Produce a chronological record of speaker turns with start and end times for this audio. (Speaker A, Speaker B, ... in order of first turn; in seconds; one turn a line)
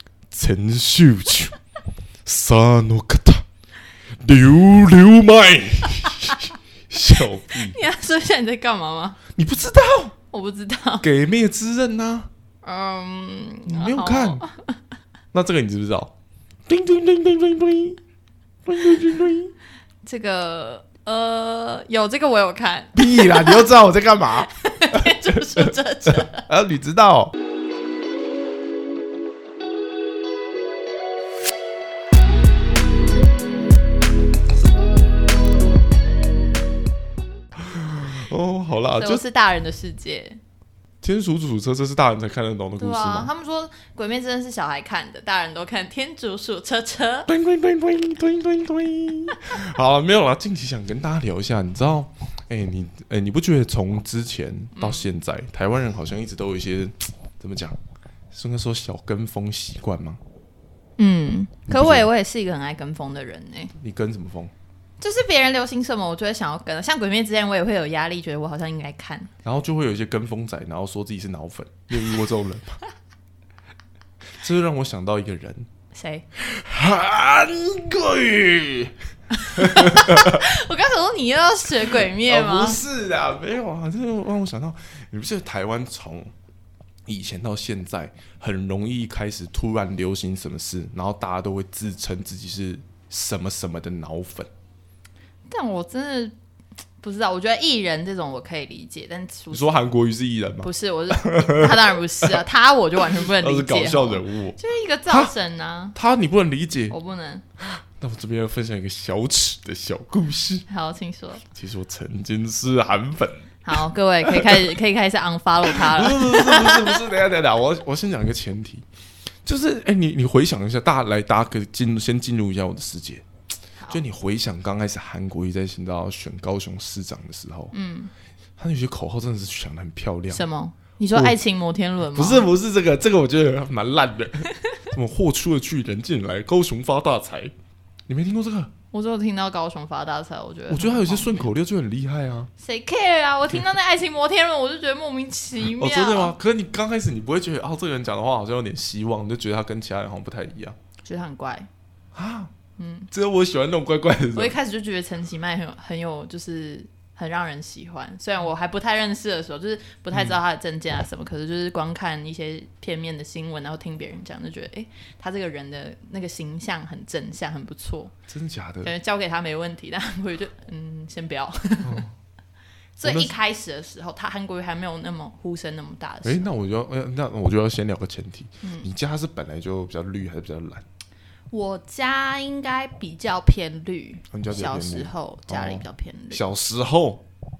Speaker A: 0.3-1.6
Speaker A: 2.2-3.5
Speaker A: 4.2-7.8
Speaker B: 7.5-9.2
Speaker A: 9.3-10.2
Speaker B: 10.3-11.1
Speaker A: 11.0-12.3
Speaker B: 12.6-14.8
Speaker A: 13.7-14.4
Speaker A: 15.3-16.1
Speaker A: 16.7-18.0
Speaker A: 18.7-19.5
Speaker B: 20.0-23.7
Speaker A: 22.9-27.3
Speaker B: 24.5-26.4
Speaker A: 37.6-39.2
Speaker B: 39.0-40.4
Speaker A: 41.0-43.3
Speaker B: 42.8-47.3
Speaker A: 47.3-57.8
Speaker B: 54.8-55.1
Speaker A: 58.3-60.2
Speaker B: 61.0-63.7
Speaker A: 61.7-62.1
Speaker A: 63.8-64.5
Speaker B: 65.0-69.3
Speaker A: 69.4-72.8
Speaker A: 74.4-75.7
Speaker B: 75.9-76.2
Speaker A: 76.4-78.9
Speaker B: 79.4-82.8
Speaker A: 79.5-80.4
Speaker A: 81.9-86.3
Speaker A: 87.1-94.5
Speaker B: 95.5-96.3
Speaker B: 97.0-99.8
Speaker A: 99.5-102.4
Speaker B: 100.6-106.0
Speaker A: 103.1-105.3
Speaker A: 106.0-107.0
Speaker B: 106.9-107.4
Speaker A: 107.6-110.7
Speaker B: 110.7-111.4
Speaker A: 111.5-113.6
Speaker B: 113.7-117.0
Speaker A: 114.3-114.6
Speaker A: 115.7-118.8
Speaker A: 119.5-123.3
Speaker A: 123.9-127.7
Speaker B: 127.7-128.1
Speaker A: 128.6-130.4
Speaker B: 130.3-132.5
Speaker A: 132.0-137.5
Speaker A: 138.1-138.7
Speaker B: 138.9-141.5
Speaker A: 140.7-142.5
Speaker B: 142.6-146.3
Speaker A: 145.8-150.8
Speaker B: 151.0-151.7
Speaker A: 152.2-152.5
Speaker B: 152.8-153.1
Speaker A: 153.1-154.6
Speaker B: 154.3-168.1
Speaker A: 168.3-168.9
Speaker B: 168.8-172.1
Speaker A: 171.8-172.1
Speaker B: 173.0-176.5
Speaker A: 173.0-173.3
Speaker A: 176.2-180.8
Speaker B: 178.6-178.9
Speaker B: 181.5-186.4
Speaker A: 184.3-187.2